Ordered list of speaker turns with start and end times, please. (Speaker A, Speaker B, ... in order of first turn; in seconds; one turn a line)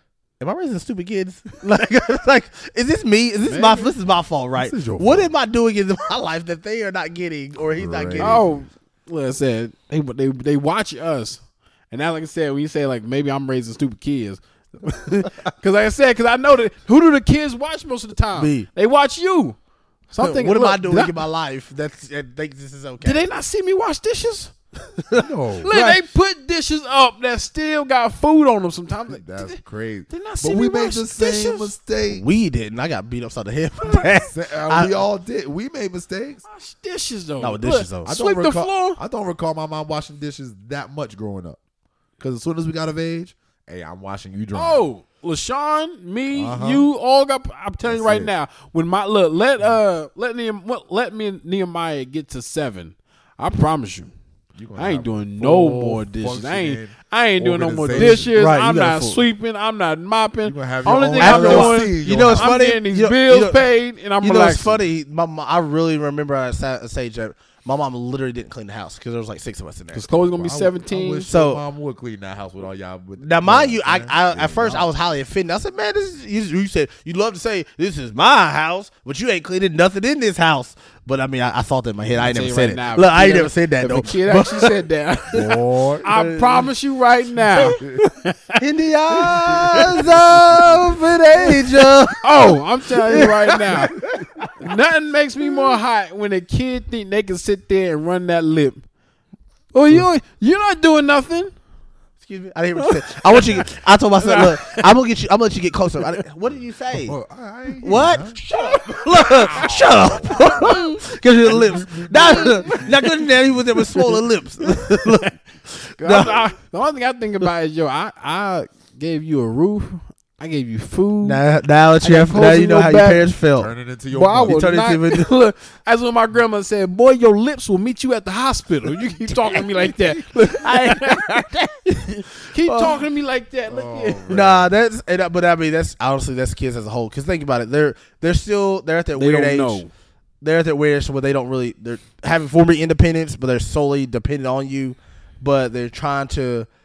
Speaker A: 0.4-8.4
Speaker B: 3.4-3.9
Speaker C: 4.5-5.3
Speaker C: 7.7-8.6
Speaker B: 8.2-19.6
Speaker A: 18.3-18.7
Speaker B: 20.1-21.2
Speaker A: 20.2-23.2
Speaker B: 23.0-24.5
Speaker A: 25.0-26.0
Speaker C: 25.1-25.7
Speaker B: 25.6-31.7
Speaker C: 29.1-32.2
Speaker A: 32.1-35.0
Speaker C: 33.8-36.4
Speaker B: 36.5-39.0
Speaker A: 37.4-38.1
Speaker C: 38.0-41.6
Speaker C: 42.2-44.8
Speaker B: 44.5-54.1
Speaker C: 46.3-46.9
Speaker C: 47.8-48.3
Speaker C: 54.5-58.3
Speaker B: 54.8-64.8
Speaker A: 57.9-59.2
Speaker C: 60.4-62.5
Speaker A: 61.2-63.6
Speaker A: 64.2-70.0
Speaker B: 69.9-71.3
Speaker C: 70.1-74.9
Speaker A: 71.3-71.6
Speaker A: 73.2-84.8
Speaker B: 82.1-88.6
Speaker C: 85.3-86.1
Speaker A: 86.1-86.7
Speaker C: 87.8-88.0
Speaker A: 88.6-94.6
Speaker B: 89.2-90.0
Speaker B: 92.2-94.0
Speaker C: 93.9-94.3
Speaker B: 94.6-98.8
Speaker A: 95.5-95.7
Speaker B: 99.7-101.5
Speaker A: 102.2-107.2
Speaker B: 102.8-103.7
Speaker B: 104.2-104.8
Speaker C: 107.0-110.7
Speaker A: 107.8-116.4
Speaker C: 111.4-113.0
Speaker B: 116.0-121.4
Speaker A: 121.2-123.7
Speaker B: 122.0-123.3
Speaker C: 123.5-124.8
Speaker B: 124.1-131.4
Speaker A: 124.5-125.3
Speaker A: 130.4-132.1
Speaker B: 131.9-134.4
Speaker A: 132.6-133.0
Speaker C: 133.7-134.7
Speaker A: 134.3-139.9
Speaker B: 139.1-139.9
Speaker A: 140.4-146.7